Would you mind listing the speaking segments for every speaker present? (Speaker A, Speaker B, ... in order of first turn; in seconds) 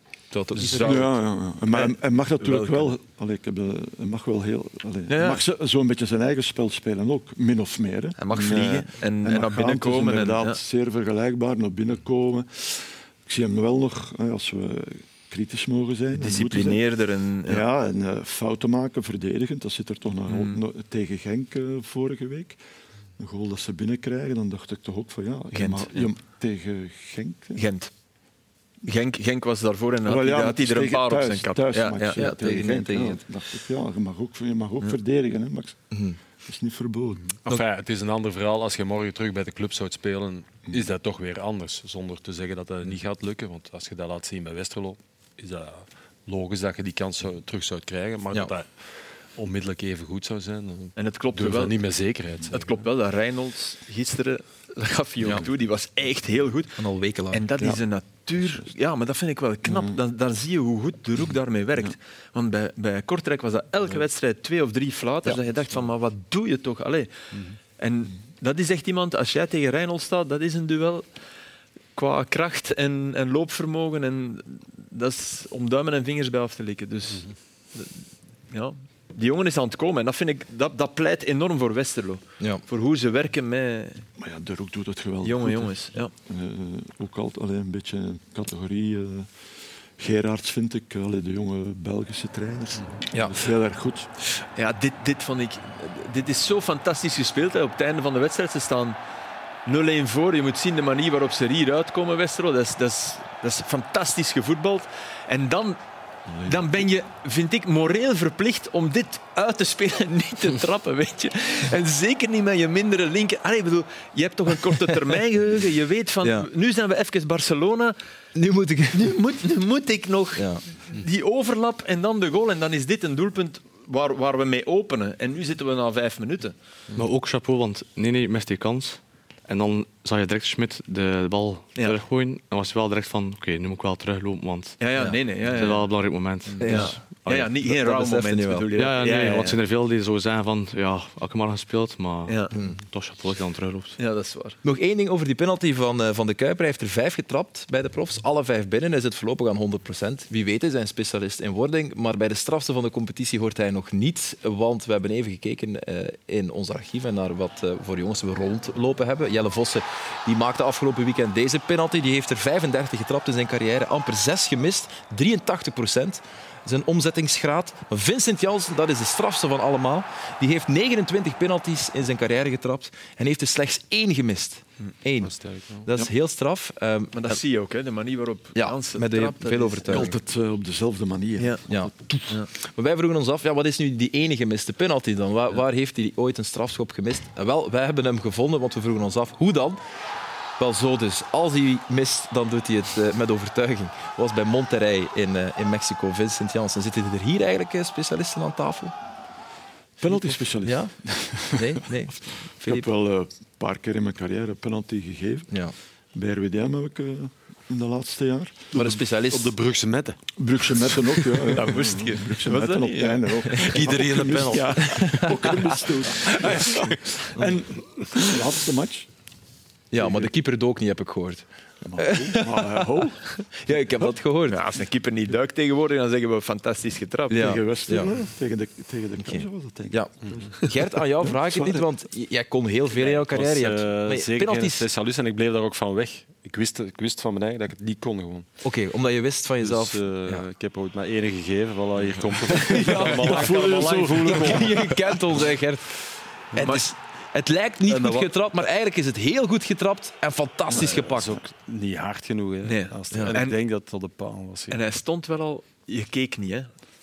Speaker A: 0.3-1.2, 32.1-33.2, 35.9-36.2, 55.2-55.5, 56.8-57.5, 116.2-116.5, 118.3-119.1, 120.4-120.6, 136.5-137.0, 137.6-138.7, 142.5-142.8, 144.6-177.4, 178.6-180.2, 182.5-189.8, 190.6-199.0, 200.0-202.9, 205.5-205.8, 208.7-209.6, 215.0-215.3, 219.9-221.5, 222.0-222.9, 223.5-224.6, 227.3-228.2, 229.2-234.9, 238.6-240.4, 242.8-243.1, 244.3-251.4, 253.1-253.4
Speaker B: 0.6-1.0, 37.4-52.8, 67.3-67.6, 175.2-175.9, 208.8-211.6, 213.6-215.5, 216.4-216.9, 230.2-230.5, 232.9-238.5, 239.6-244.8, 247.9-248.3, 250.7-254.8
Speaker C: 0.7-3.0, 5.1-5.4, 8.2-10.6, 16.1-17.6, 20.3-20.6, 25.5-26.1, 27.6-27.9, 28.9-32.2, 51.0-51.8, 52.5-67.1, 67.8-71.0, 72.0-84.1, 85.2-86.1, 94.4-99.0, 99.7-105.8, 106.5-118.0, 118.9-126.6, 134.8-139.6, 142.3-142.6, 144.0-144.6, 177.1-180.1, 181.4-181.7, 211.5-213.7, 224.5-227.5, 242.8-243.7, 246.6-246.9, 252.6-253.6, 254.7-256.7
Speaker D: 0.8-16.8, 17.5-22.6, 23.2-27.6, 30.1-35.9, 36.4-37.3, 58.4-58.7, 59.7-60.0, 84.2-89.4, 90.0-94.1, 106.3-106.9, 179.9-182.3, 200.0-208.7, 210.4-219.1, 220.0-220.3, 221.8-223.3, 227.3-231.9, 242.8-245.1, 250.7-251.1
Speaker E: 127.0-137.6, 138.8-144.0